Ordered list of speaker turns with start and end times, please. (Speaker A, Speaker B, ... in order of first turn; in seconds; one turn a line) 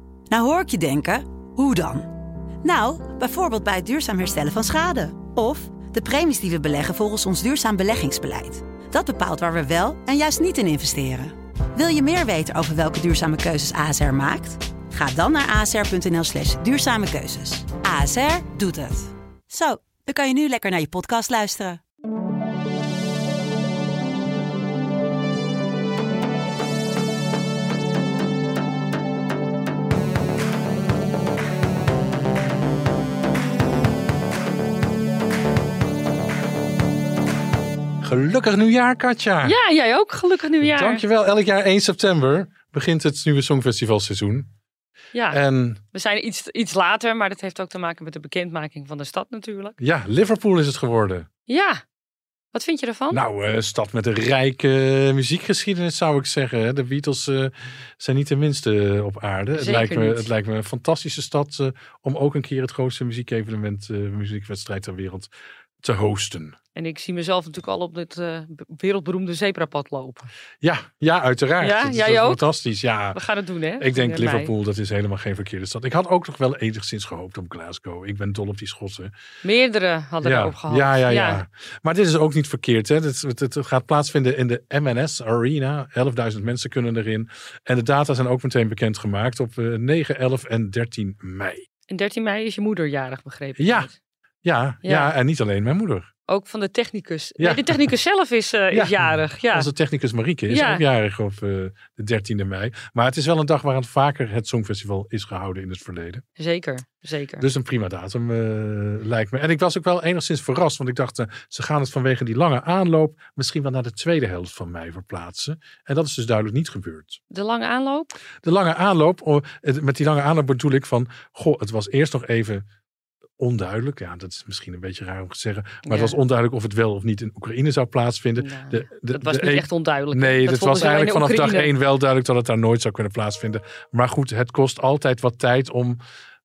Speaker A: 0.3-2.1
Speaker A: 2.6-21.8
Speaker B: 38.0-39.6
Speaker C: 39.4-41.0
Speaker B: 40.6-44.5
Speaker C: 45.1-45.4
Speaker B: 45.3-45.8
Speaker C: 45.9-49.8
Speaker B: 49.8-51.3
Speaker C: 51.5-51.8
Speaker C: 52.5-53.2
Speaker B: 53.1-65.3
Speaker C: 59.5-60.2
Speaker B: 65.8-66.5
Speaker C: 66.7-70.3
Speaker B: 70.6-73.2
Speaker C: 71.6-72.4
Speaker C: 73.1-74.5
Speaker B: 73.8-79.1
Speaker C: 79.4-81.4
Speaker B: 80.2-91.7
Speaker C: 91.9-93.9
Speaker B: 93.6-93.9
Speaker B: 94.4-96.1
Speaker C: 94.8-95.1
Speaker C: 96.3-99.7
Speaker B: 97.4-97.8
Speaker B: 98.7-106.2
Speaker C: 100.5-100.8
Speaker C: 106.4-107.4
Speaker B: 107.4-117.2
Speaker C: 117.3-118.1
Speaker B: 118.4-122.6
Speaker B: 123.4-136.0
Speaker C: 125.8-126.2
Speaker C: 128.4-131.7